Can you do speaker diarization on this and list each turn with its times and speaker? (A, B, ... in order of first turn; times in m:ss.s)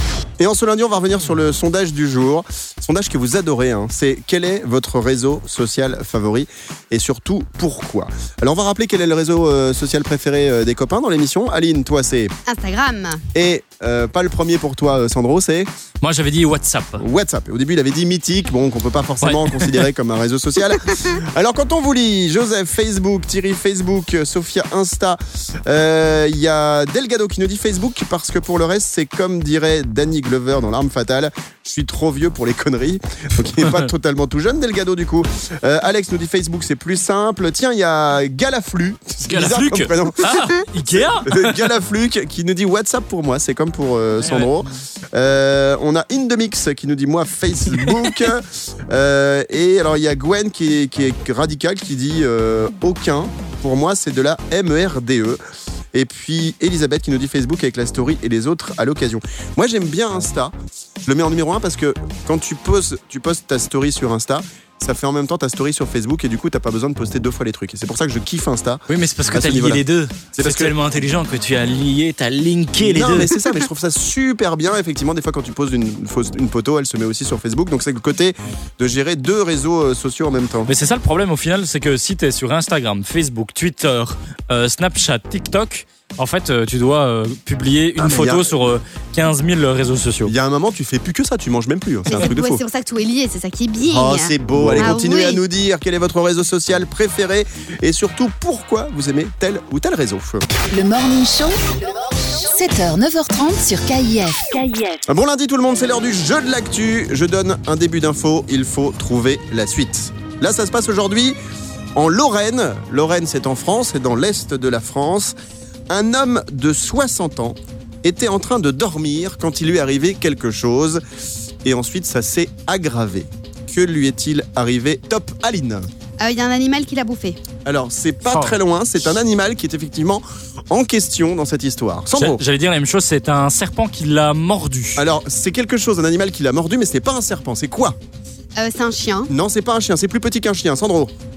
0:00.4-0:12.3 A
0:12.5-0:13.2 B
0:13.3-0:15.7 A
0:16.0-0:17.0 C
0:17.0-0:40.4 A
0:19.2-0:19.9 C
0:39.3-0:41.6 C
0:41.2-0:55.4 A
0:44.2-0:44.7 C
0:55.9-1:00.5 A
1:01.0-1:09.8 A
1:08.9-1:13.4 C
1:10.3-1:10.7 A
1:12.8-1:20.7 A
1:20.7-1:30.3 C
1:28.0-1:28.6 A
1:30.2-1:32.6 A
1:32.1-1:35.4 B
1:33.9-1:40.4 A
1:34.6-1:34.9 C
1:40.7-1:45.0 D
1:45.0-1:51.4 A
1:52.0-1:55.3 A
1:55.9-2:01.0 A
2:01.6-2:05.9 A
2:06.2-2:07.4 B
2:07.6-2:12.4 A
2:08.3-2:08.6 C
2:12.1-2:15.0 C
2:15.0-2:18.0 A
2:18.6-2:19.3 B
2:19.3-2:21.1 A